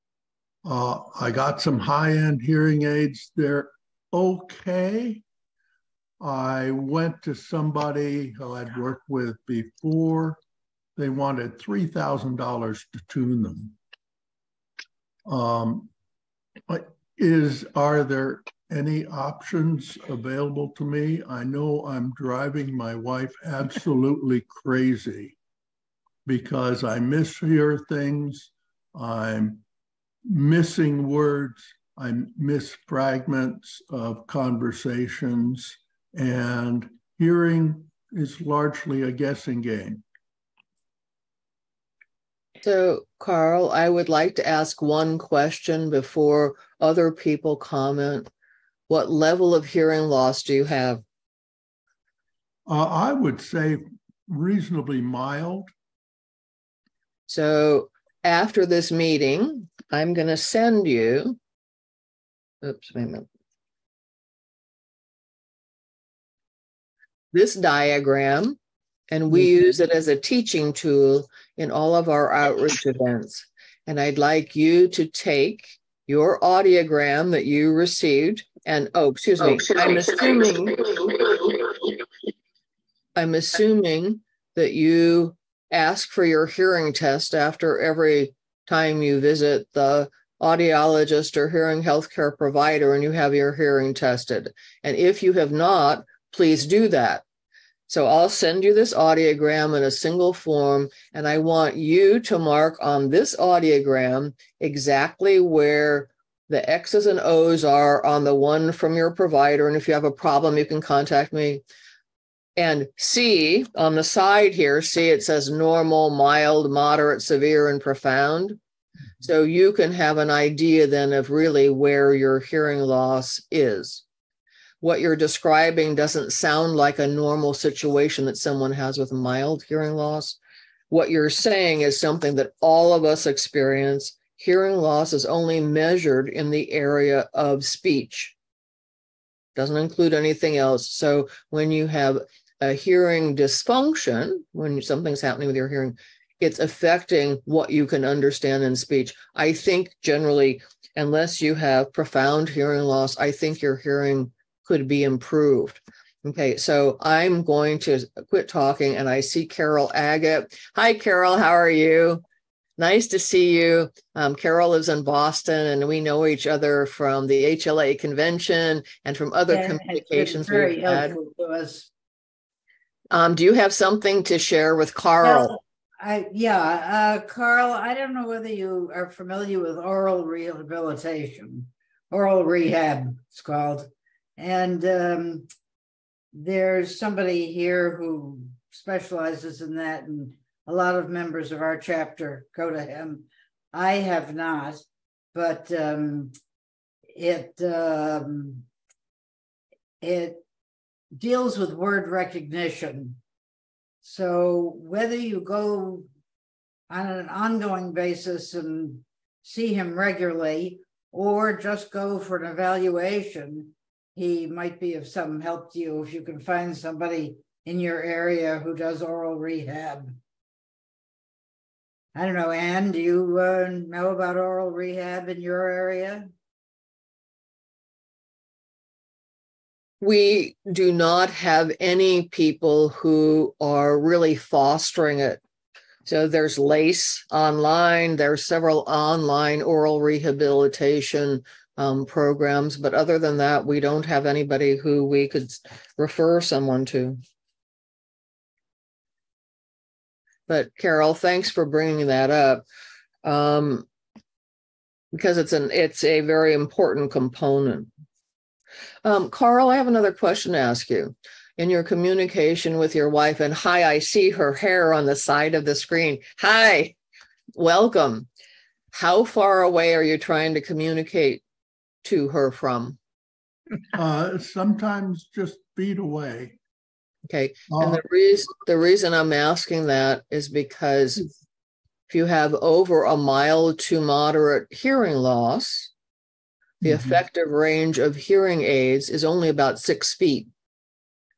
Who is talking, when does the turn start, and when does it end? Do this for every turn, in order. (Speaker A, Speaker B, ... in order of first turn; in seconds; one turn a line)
Speaker A: 0.6-5.2
Speaker A: 6.2-10.4
Speaker A: 11.0-13.8
Speaker A: 15.2-15.9
Speaker A: 16.7-25.4
Speaker A: 26.2-29.6
Speaker A: 30.2-40.0
Speaker B: 42.6-48.3
Speaker B: 48.9-51.0
Speaker A: 52.7-55.7
Speaker B: 57.3-61.4
Speaker B: 62.6-63.3
Speaker B: 67.3-68.6
Speaker B: 69.1-81.1
Speaker B: 83.2-97.2
Speaker B: 97.9-111.6
Speaker B: 112.6-118.6
Speaker B: 119.2-124.0
Speaker B: 124.8-130.4
Speaker B: 130.9-138.3
Speaker B: 139.6-162.2
Speaker B: 162.8-171.2
Speaker C: 169.5-171.9
Speaker B: 173.1-175.6
Speaker C: 175.2-185.5
Speaker C: 186.3-196.3
Speaker C: 197.1-198.7
Speaker C: 200.0-200.4
Speaker C: 201.1-203.2
Speaker C: 204.0-206.1
Speaker C: 206.9-220.2
Speaker C: 222.2-226.3
Speaker B: 230.0-235.4
Speaker B: 236.1-247.2
Speaker B: 250.5-252.6
Speaker B: 253.2-253.8
Speaker B: 255.1-257.9
Speaker B: 259.0-266.9
Speaker B: 267.6-268.3
Speaker B: 268.9-271.4
Speaker B: 272.0-273.0
Speaker A: 273.9-276.6
Speaker B: 277.3-281.2
Speaker A: 277.7-278.0
Speaker B: 282.1-285.9
Speaker B: 286.8-290.5